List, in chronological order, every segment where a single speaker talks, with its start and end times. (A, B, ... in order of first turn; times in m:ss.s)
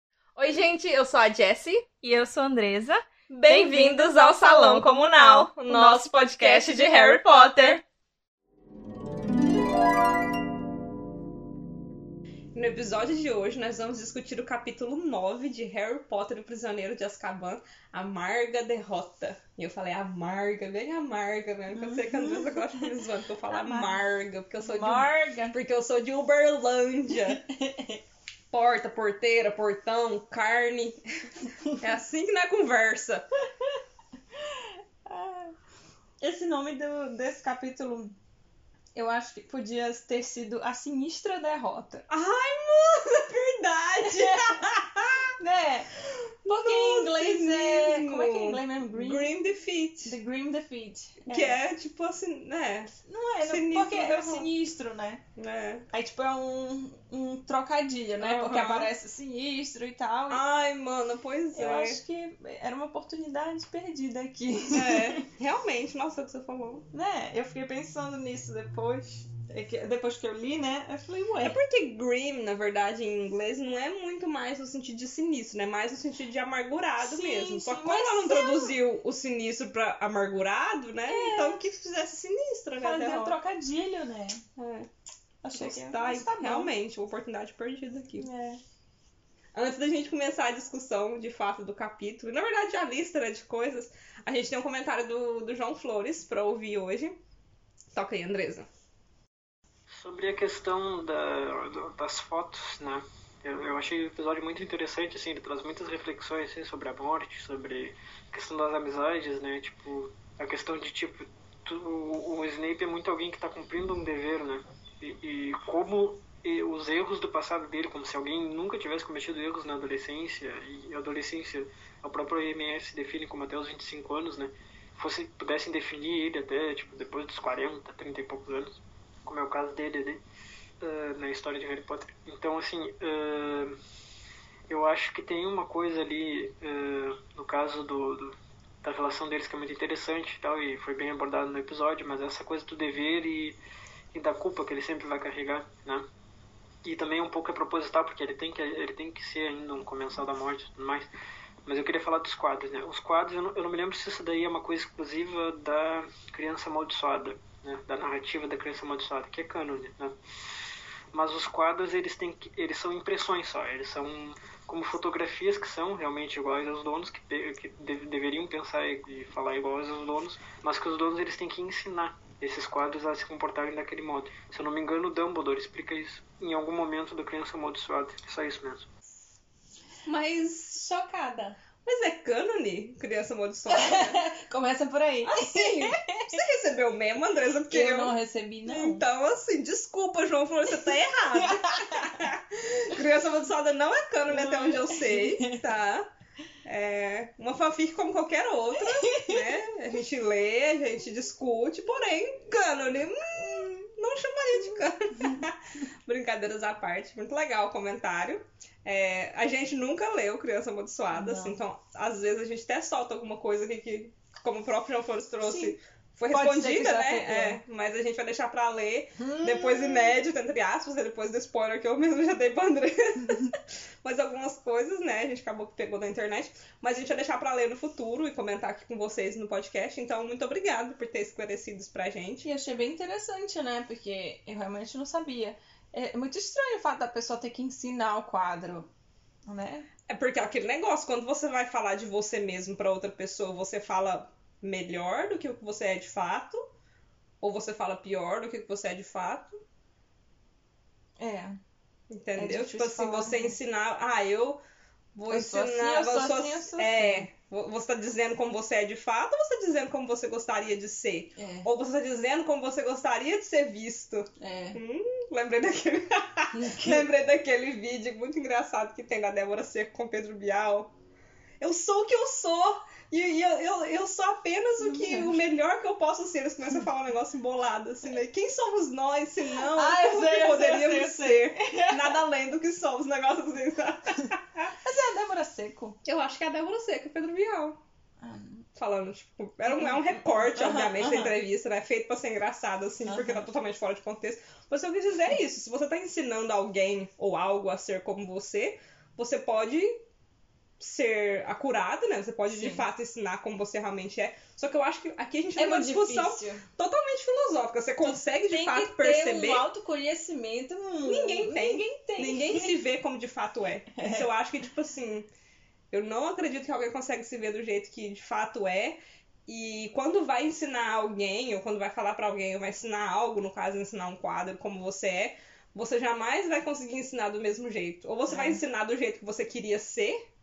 0:00.4-0:02.0 A
0:02.0-0:07.8 B
0:03.3-0:07.8 A
0:12.6-0:27.4 A
0:21.7-0:22.9 B
0:23.5-0:24.0 B
0:24.6-0:25.6 B
0:27.2-0:28.0 B
0:28.5-0:31.0 A
0:31.7-0:33.3 A
0:35.1-0:35.6 B
0:36.2-0:38.2 B
0:39.0-0:42.0 B
0:42.1-0:45.3 A
0:44.0-0:44.7 B
0:45.4-0:45.9 B
0:46.4-0:49.3 B
0:46.5-0:50.2 A
0:50.0-0:51.6 B
0:51.3-0:52.9 A
0:53.1-0:55.2 B
0:53.4-0:54.5 A
0:55.4-0:55.8 A
0:55.9-1:00.4 B
0:58.2-0:58.9 A
1:00.3-1:02.0 A
1:01.5-1:05.2 B
1:04.7-1:06.9 A
1:06.9-1:11.6 B
1:11.4-1:23.4 A
1:17.0-1:18.8 B
1:21.1-1:21.6 B
1:22.8-1:24.4 B
1:24.6-1:24.9 A
1:25.4-1:26.7 B
1:25.5-1:28.3 A
1:28.2-1:28.6 B
1:29.5-1:37.2 A
1:37.9-1:38.7 A
1:40.0-2:10.2 C
2:10.8-2:13.8 C
2:14.7-2:23.6 C
2:24.1-2:26.1 C
2:26.8-2:31.1 C
2:31.7-2:40.1 C
2:41.1-2:58.9 C
3:00.1-3:00.9 A
3:00.8-3:01.6 B
3:01.8-3:04.3 A
3:03.7-3:06.4 B
3:05.2-3:16.1 A
3:07.7-3:09.0 B
3:10.7-3:12.3 B
3:14.3-3:15.7 B
3:16.6-3:52.5 A
3:18.8-3:19.6 B
3:23.4-3:23.7 B
3:24.5-3:25.4 B
3:31.1-3:31.6 B
3:35.4-3:35.8 B
3:36.3-3:37.6 B
3:39.2-3:40.2 B
3:52.4-3:58.9 B
3:59.5-3:59.9 B
4:00.1-4:06.6 A
4:07.4-4:09.6 A
4:11.2-4:11.6 B
4:12.1-4:14.6 A
4:12.4-4:13.6 B
4:15.2-4:30.9 A
4:15.3-4:17.3 B
4:21.4-4:21.7 B
4:24.4-4:24.8 B
4:26.5-4:27.1 B
4:31.6-4:44.7 A
4:34.8-4:35.4 B
4:39.7-4:42.2 B
4:44.8-4:46.0 B
4:46.0-4:47.8 A
4:48.2-4:48.7 B
4:48.8-5:00.0 A
4:49.7-4:51.3 B
4:53.0-4:53.5 B
5:00.8-5:09.7 A
5:02.5-5:02.8 B
5:05.6-5:06.6 B
5:08.0-5:12.8 B
5:11.0-5:15.3 A
5:14.0-5:14.3 B
5:15.9-5:30.2 A
5:28.3-5:28.6 B